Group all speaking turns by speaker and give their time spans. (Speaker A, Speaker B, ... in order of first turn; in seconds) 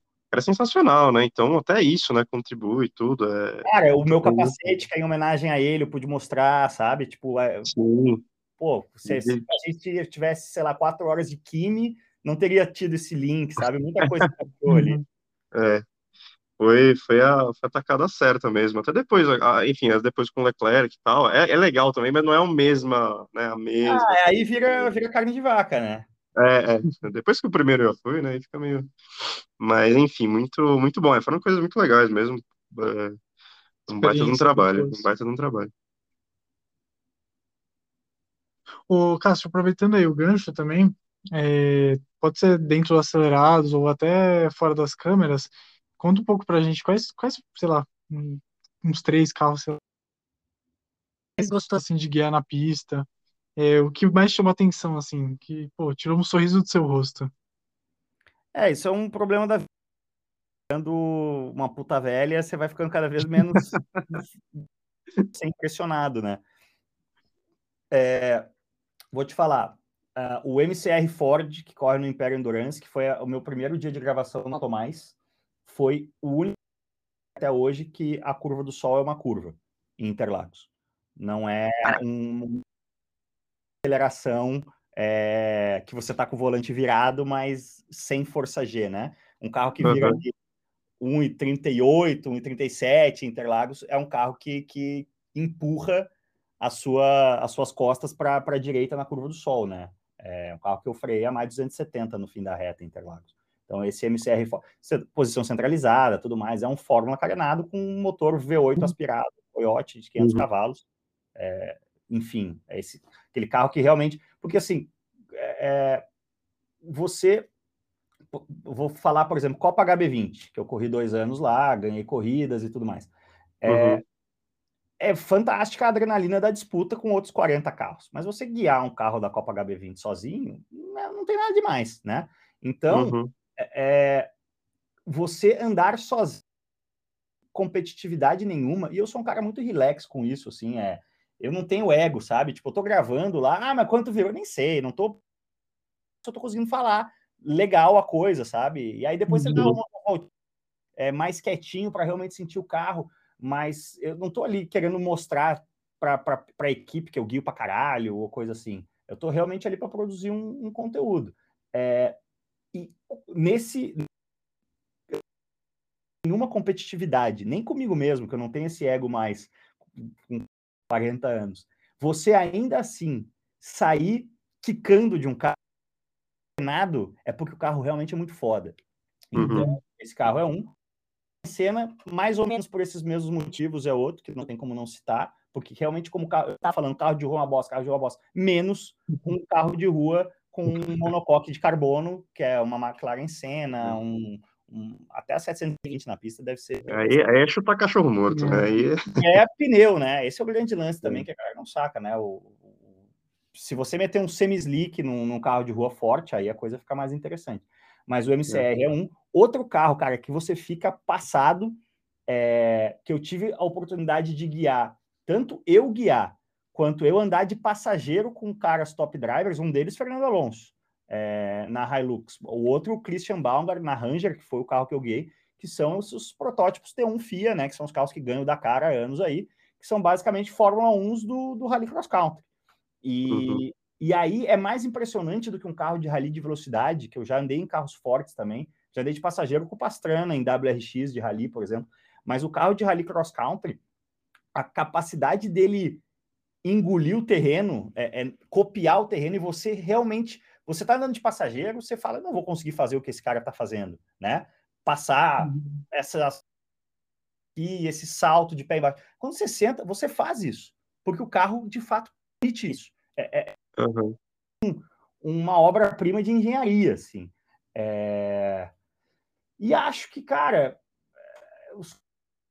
Speaker A: 0.3-4.5, 7.6-8.2, 9.1-9.5, 15.5-15.8, 16.6-24.9, 26.4-33.1, 33.9-35.7, 89.8-90.2, 110.2-110.5, 123.7-124.0, 132.9-133.3, 149.5-149.8, 179.3-179.7, 196.9-199.2, 233.3-233.6, 263.8-264.1
Speaker B: 3.6-7.7, 8.6-15.0, 23.8-26.1, 58.5-59.7, 60.7-64.7, 65.3-66.4, 67.9-68.5, 69.1-75.1, 75.7-76.6, 77.3-80.7, 81.2-82.6, 83.8-90.3, 91.0-110.8, 111.3-116.0, 116.8-117.5, 118.3-123.1, 123.6-124.0, 125.0-134.3, 135.1-136.4, 137.5-145.2, 146.2-150.3, 151.0-162.2, 162.7-164.1, 166.2-175.6, 176.6-178.7, 179.3-180.7, 181.4-197.2, 199.2-202.7, 203.5-232.4, 233.0-243.8, 244.5-246.0, 246.6-256.4, 257.6-263.6, 264.6-268.7, 269.6-270.8, 271.7-272.0
Speaker C: 14.7-15.0, 33.9-35.0, 38.9-49.8, 51.4-57.3, 149.3-149.6, 179.4-179.7, 198.3-198.7, 255.4-255.8